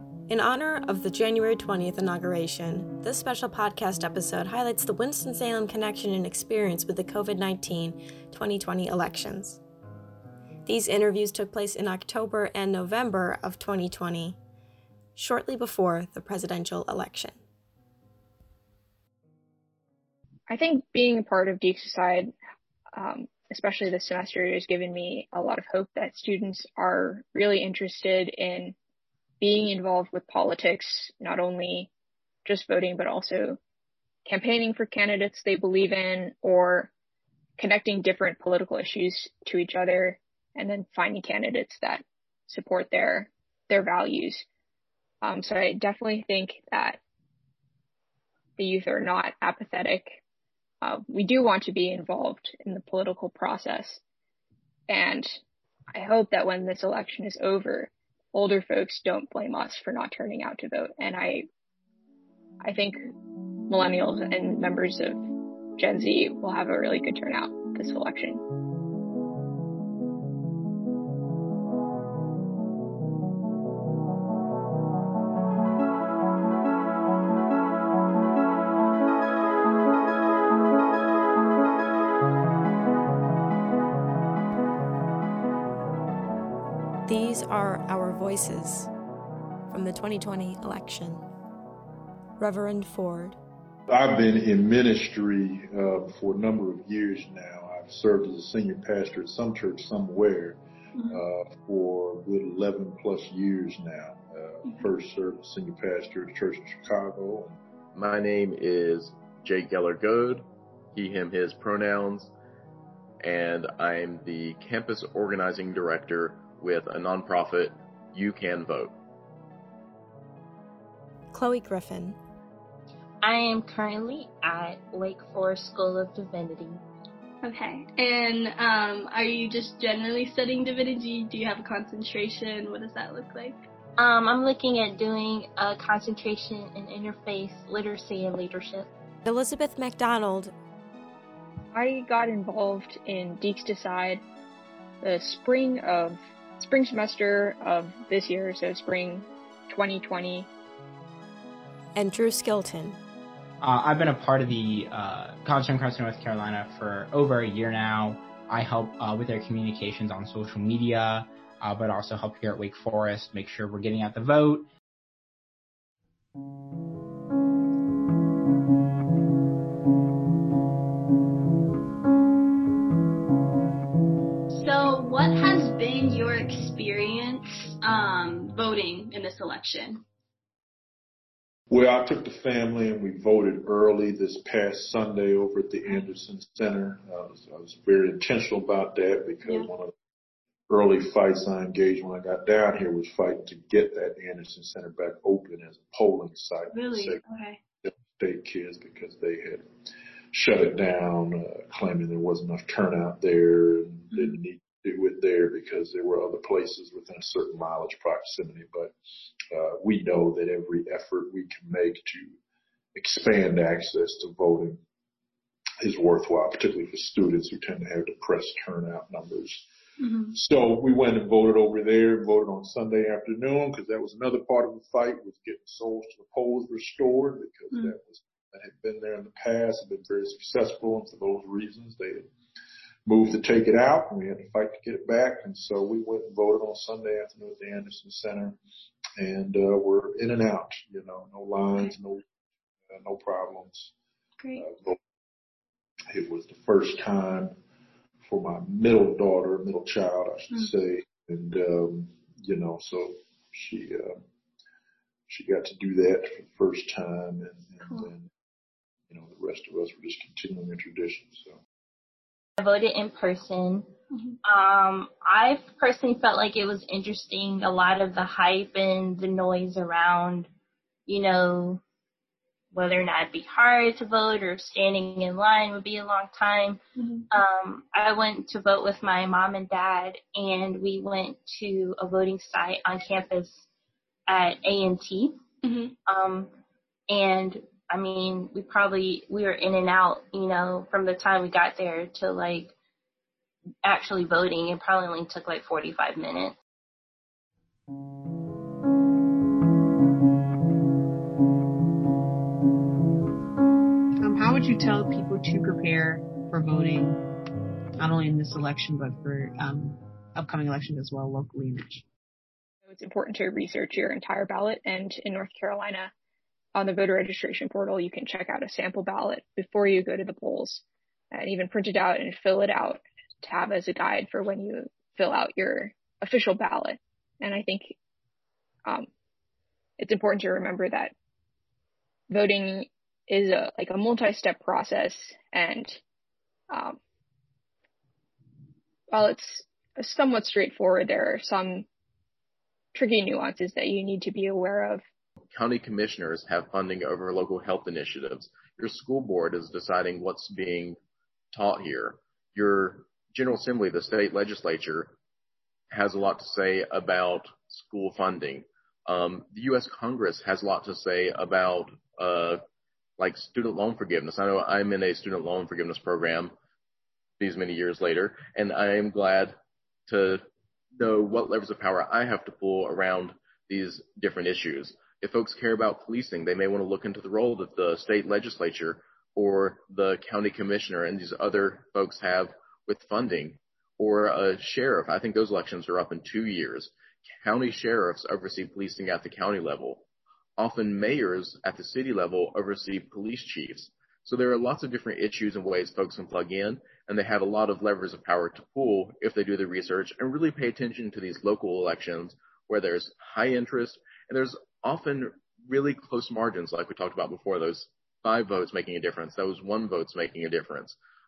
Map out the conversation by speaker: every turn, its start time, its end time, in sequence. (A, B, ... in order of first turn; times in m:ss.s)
0:00.3-0:09.6 A
0:10.6-0:14.4 A
0:15.2-0:17.4 A
0:20.5-0:22.3 B
0:22.9-0:28.7 B
0:29.4-0:31.9 B
0:32.4-0:33.6 B
0:34.2-0:36.9 B
0:37.6-0:44.4 B
0:45.2-0:47.0 B
0:48.6-0:50.2 B
0:50.8-0:54.0 B
0:54.9-0:55.4 B
0:55.9-1:01.4 B
1:02.6-1:03.0 B
1:03.7-1:05.2 B
1:05.8-1:08.4 B
1:27.1-1:28.9 A
1:29.7-1:31.2 A
1:32.4-1:33.4 A
1:33.9-1:47.6 C
1:47.9-1:52.3 D
1:53.2-1:58.9 D
2:01.3-2:02.2 A
2:03.2-2:06.8 E
2:07.4-2:13.6 F
2:14.0-2:18.8 E
2:19.2-2:20.5 A
2:21.7-2:24.2 B
2:25.0-2:30.5 B
2:32.0-2:33.0 A
2:33.6-2:44.6 G
2:54.5-3:00.0 F
3:01.7-3:09.9 C
3:10.7-3:17.2 C
3:16.7-3:17.6 F
3:17.8-3:19.6 C
3:20.3-3:28.9 C
3:29.5-3:32.3 C
3:32.9-3:34.8 C
3:35.8-3:39.6 C
3:40.0-3:40.3 F
3:40.3-3:52.2 C
3:53.0-3:58.6 C
3:59.2-4:02.2 C
4:02.9-4:03.9 C
4:04.5-4:05.0 C
4:06.1-4:07.5 C
4:08.2-4:14.2 C
4:15.3-4:18.3 C
4:19.1-4:21.6 C
4:22.6-4:23.9 E
4:24.4-4:30.5 E
4:31.1-4:31.8 E
4:32.7-4:36.8 E
4:37.0-4:37.2 F
4:37.4-4:43.5 E
4:44.3-4:45.4 E
4:45.6-4:45.9 F
4:46.0-4:46.5 E
4:47.1-4:52.7 E
4:53.8-4:56.6 E
5:04.2-5:07.2 H
5:08.0-5:12.0 H
5:12.8-5:16.1 B
5:16.7-5:27.9 B
5:30.0-5:31.1 B
5:32.3-5:36.0 B
5:36.7-5:37.0 B
5:39.1-5:41.8 B
5:42.9-5:45.0 B
5:45.5-5:51.0 D
5:51.5-5:55.1 D
5:55.9-6:02.6 D
6:03.2-6:06.5 D
6:07.4-6:09.5 D
6:10.1-6:10.4 D
6:11.0-6:30.0 D
6:30.6-6:51.0 D